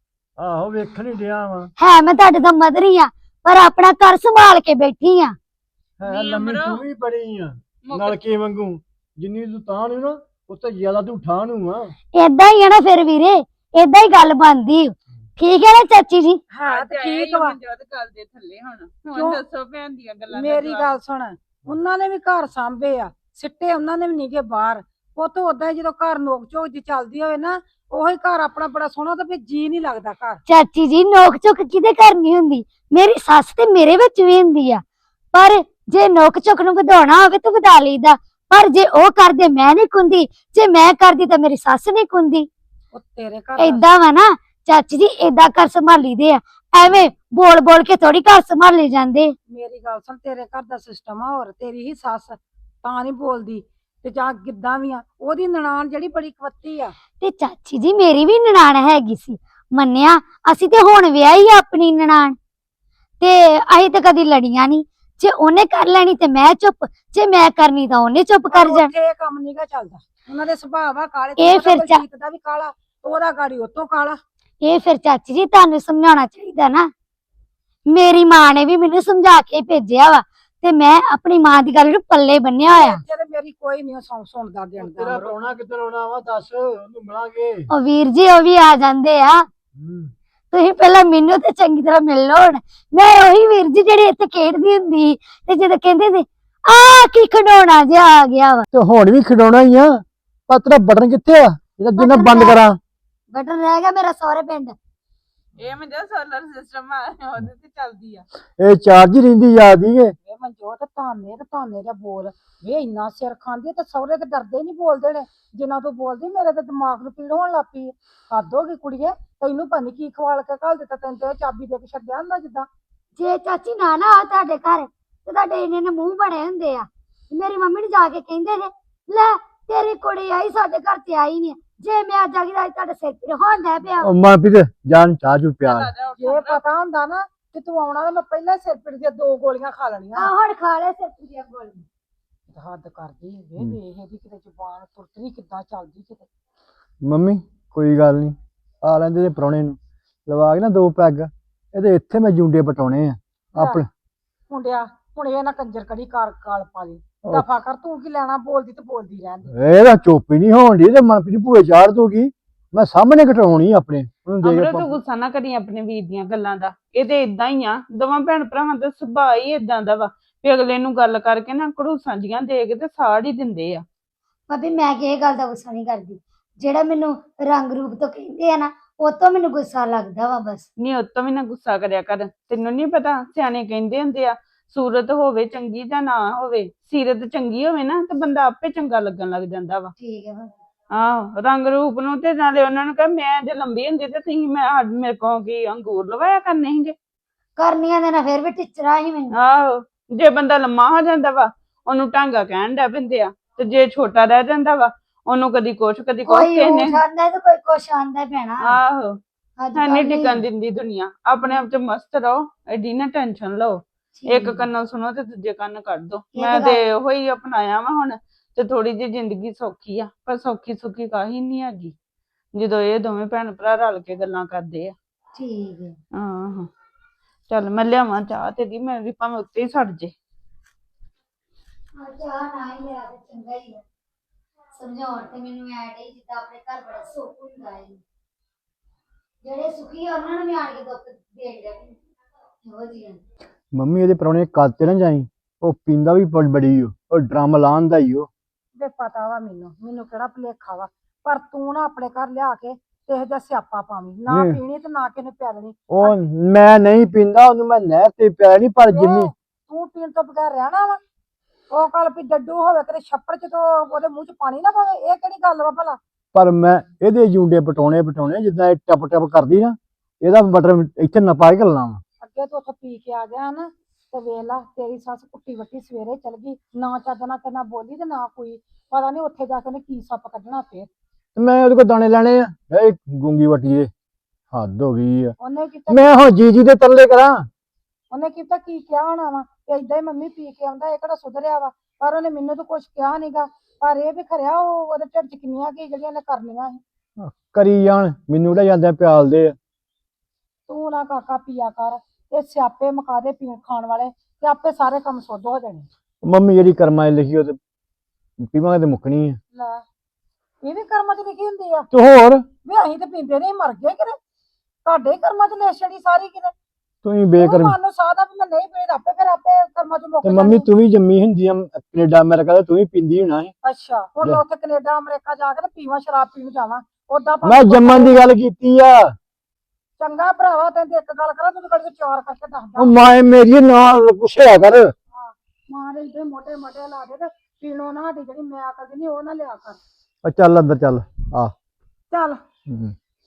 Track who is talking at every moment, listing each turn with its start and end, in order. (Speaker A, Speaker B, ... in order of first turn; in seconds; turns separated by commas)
Speaker A: 0.4-1.7, Speaker B: 1.8-5.3, Speaker A: 6.0-11.9, Speaker C: 6.0-6.8, Speaker C: 7.8-8.2, Speaker B: 12.1-16.4, Speaker D: 16.5-17.6, Speaker C: 16.6-20.9, Speaker D: 19.1-19.4, Speaker D: 20.3-30.4, Speaker B: 30.5-34.8, Speaker B: 35.3-42.5, Speaker D: 42.9-43.8, Speaker B: 43.6-49.3, Speaker D: 49.5-56.9, Speaker B: 57.2-62.4, Speaker B: 63.2-68.9, Speaker D: 68.5-74.2, Speaker B: 71.4-72.0, Speaker B: 74.6-76.9, Speaker B: 77.9-83.0, Speaker D: 82.7-85.3, Speaker A: 84.8-87.7, Speaker B: 87.7-89.5, Speaker A: 89.8-90.1, Speaker B: 90.5-98.7, Speaker A: 98.7-102.8, Speaker B: 102.0-102.6, Speaker B: 103.3-104.8, Speaker C: 105.6-108.2, Speaker A: 108.6-110.1, Speaker D: 110.2-122.7, Speaker B: 123.2-134.1, Speaker A: 134.0-135.9, Speaker C: 135.6-136.6, Speaker D: 136.2-140.3, Speaker B: 140.2-141.8, Speaker D: 142.5-146.3, Speaker A: 147.0-153.9, Speaker D: 153.6-153.8, Speaker D: 154.5-159.5, Speaker A: 159.5-164.9, Speaker C: 164.4-173.8, Speaker B: 174.5-180.6, Speaker C: 180.8-189.9, Speaker B: 190.0-190.5, Speaker C: 190.9-196.9, Speaker B: 197.6-199.3, Speaker C: 199.3-207.0, Speaker B: 206.2-208.7, Speaker C: 208.6-209.1, Speaker B: 209.6-210.3, Speaker C: 209.8-221.9, Speaker B: 214.2-214.6, Speaker B: 216.3-216.8, Speaker C: 222.6-224.9, Speaker B: 225.3-226.0, Speaker C: 226.2-226.7, Speaker C: 227.5-230.1, Speaker B: 231.9-233.8, Speaker B: 234.7-238.0, Speaker B: 239.4-241.9, Speaker B: 242.6-243.2, Speaker A: 243.7-248.3, Speaker D: 248.8-256.2, Speaker A: 254.3-254.6, Speaker A: 255.9-259.3, Speaker D: 258.9-261.0, Speaker D: 261.7-266.0, Speaker A: 266.3-272.0, Speaker D: 272.2-280.9, Speaker A: 281.4-283.9, Speaker A: 284.5-285.3, Speaker D: 285.4-286.1, Speaker A: 285.9-287.5, Speaker D: 288.1-296.8, Speaker A: 297.2-299.5, Speaker D: 300.7-305.9, Speaker A: 306.2-307.6, Speaker A: 308.4-309.4, Speaker D: 309.5-309.8, Speaker D: 310.6-311.9, Speaker A: 311.9-312.4, Speaker D: 312.6-314.2, Speaker D: 314.8-316.5, Speaker A: 317.0-317.8, Speaker D: 317.4-320.6, Speaker A: 320.2-323.5, Speaker D: 323.6-328.2, Speaker A: 327.4-329.1, Speaker D: 330.0-332.9, Speaker A: 332.8-334.9, Speaker D: 335.1-339.8, Speaker A: 340.2-341.5, Speaker D: 342.1-342.4, Speaker A: 342.7-342.9